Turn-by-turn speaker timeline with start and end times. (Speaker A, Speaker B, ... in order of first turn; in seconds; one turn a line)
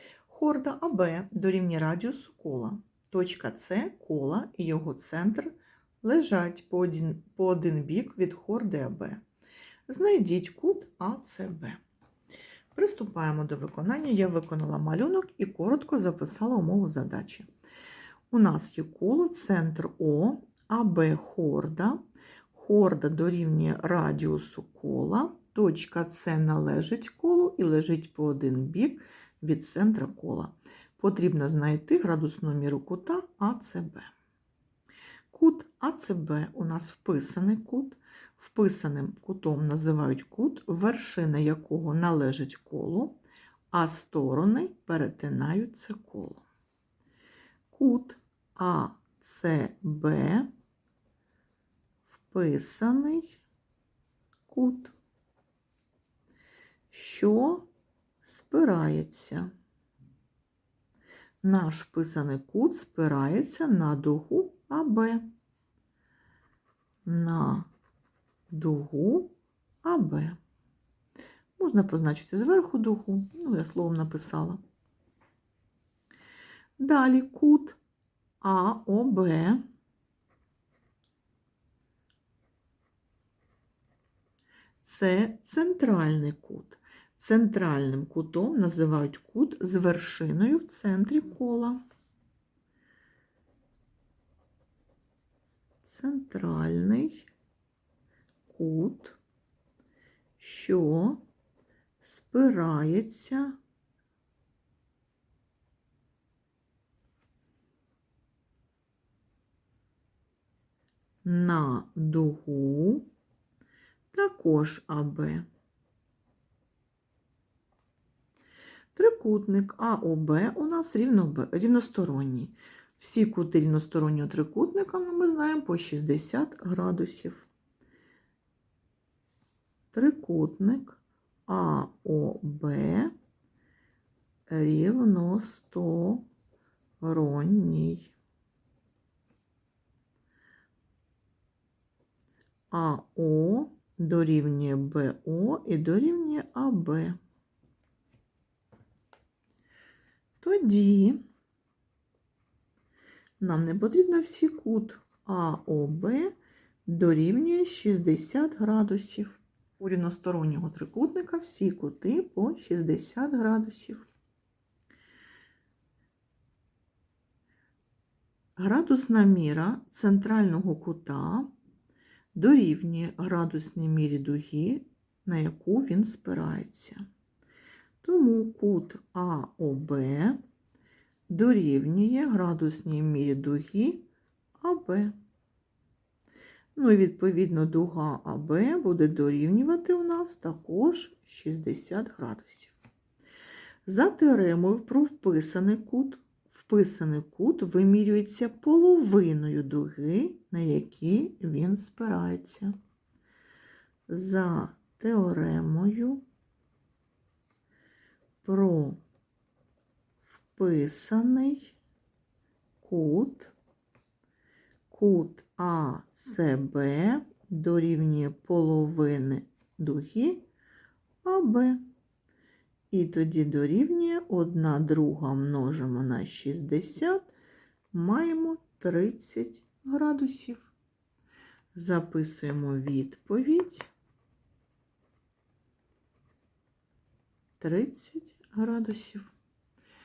Speaker A: 0.3-9.2
Speaker A: 9.9-11.8
Speaker A: 12.7-17.5
Speaker A: 18.3-22.0
Speaker A: 22.5-34.1
Speaker A: 35.3-43.2
Speaker A: 43.7-46.4
Speaker A: 47.7-50.5
Speaker A: 52.1-53.4
Speaker A: 54.5-55.0
Speaker A: 56.9-57.7
Speaker A: 58.2-59.5
Speaker A: 61.4-65.3
Speaker A: 67.0-67.7
Speaker A: 68.5-70.4
Speaker A: 71.6-74.6
Speaker A: 76.8-77.8
Speaker A: 78.4-79.6
Speaker A: 84.8-91.8
Speaker A: 95.8-97.3
Speaker A: 98.5-99.2
Speaker A: 100.4-101.2
Speaker A: 102.0-103.6
Speaker A: 111.2-113.1
Speaker A: 114.1-115.5
Speaker A: 119.0-127.5
Speaker A: 129.9-133.1
Speaker A: 134.5-136.3
Speaker A: 137.0-138.1
Speaker A: 142.7-147.2
Speaker A: 150.4-151.2
Speaker A: 153.4-156.3
Speaker A: 156.9-164.1
Speaker A: 168.6-171.5
Speaker A: 172.3-177.1
Speaker A: 178.0-180.4
Speaker A: 181.3-184.1
Speaker A: 184.6-185.2
Speaker A: 186.8-192.8
Speaker A: 193.9-202.8
Speaker A: 204.1-206.2
Speaker A: 208.4-209.0
Speaker A: 210.5-211.8
Speaker A: 212.8-213.5
Speaker A: 214.9-220.4
Speaker A: 221.2-221.8
Speaker A: 222.9-227.3
Speaker A: 227.9-230.7
Speaker A: 231.7-233.9
Speaker A: 237.6-239.3